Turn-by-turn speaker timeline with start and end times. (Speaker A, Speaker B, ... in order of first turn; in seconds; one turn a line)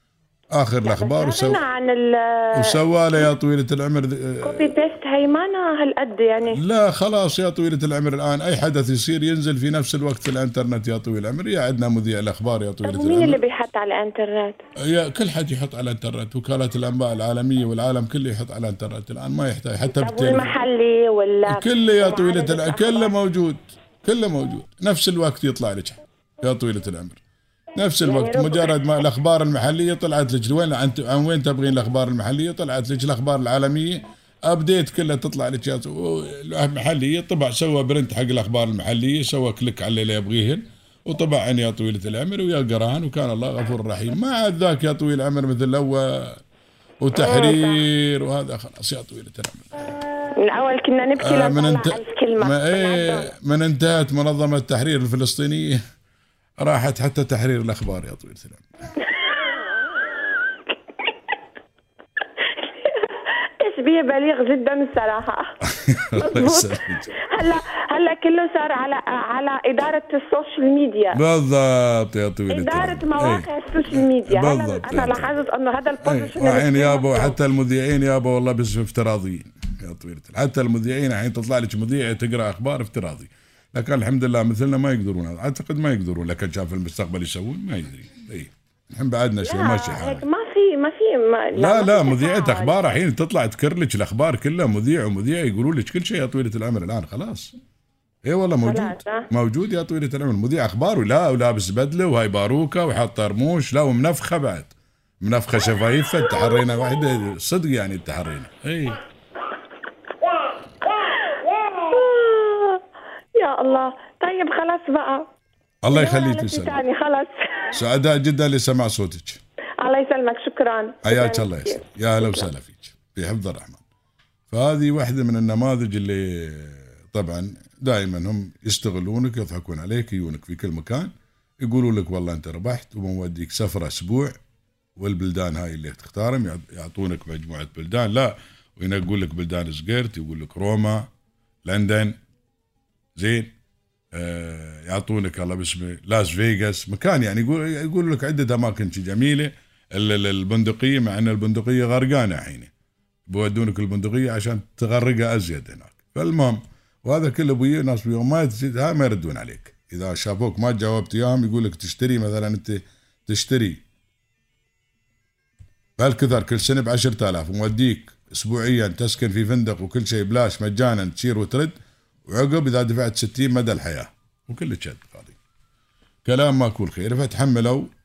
Speaker A: 0.5-1.6
Speaker B: 0.8-2.8
Speaker A: 2.5-4.7
Speaker B: 4.4-6.6
Speaker A: 6.5-13.4
Speaker B: 12.8-14.6
Speaker A: 14.8-20.6
Speaker B: 19.9-23.1
Speaker A: 21.4-27.2
Speaker A: 27.8-46.4
Speaker B: 28.0-28.8
Speaker A: 47.0-49.9
Speaker B: 47.1-47.8
Speaker B: 50.4-53.3
Speaker A: 51.2-55.8
Speaker A: 56.6-58.6
Speaker B: 62.4-65.5
Speaker A: 65.6-67.1
Speaker B: 66.1-71.2
Speaker A: 71.1-75.3
Speaker B: 72.5-77.4
Speaker A: 76.0-90.3
Speaker B: 89.4-92.9
Speaker A: 91.5-97.5
Speaker A: 98.2-109.0
Speaker B: 98.6-99.3
Speaker B: 110.9-112.8
Speaker B: 113.3-115.3
Speaker A: 115.8-116.8
Speaker B: 115.9-117.8
Speaker A: 117.7-119.4
Speaker B: 119.8-122.5
Speaker A: 121.0-123.8
Speaker A: 124.5-131.1
Speaker A: 131.6-134.3
Speaker A: 135.0-141.1
Speaker A: 141.6-142.2
Speaker A: 143.2-143.5
Speaker A: 144.1-152.7
Speaker A: 153.3-163.8
Speaker A: 166.0-171.7
Speaker A: 172.3-175.4
Speaker A: 176.2-177.9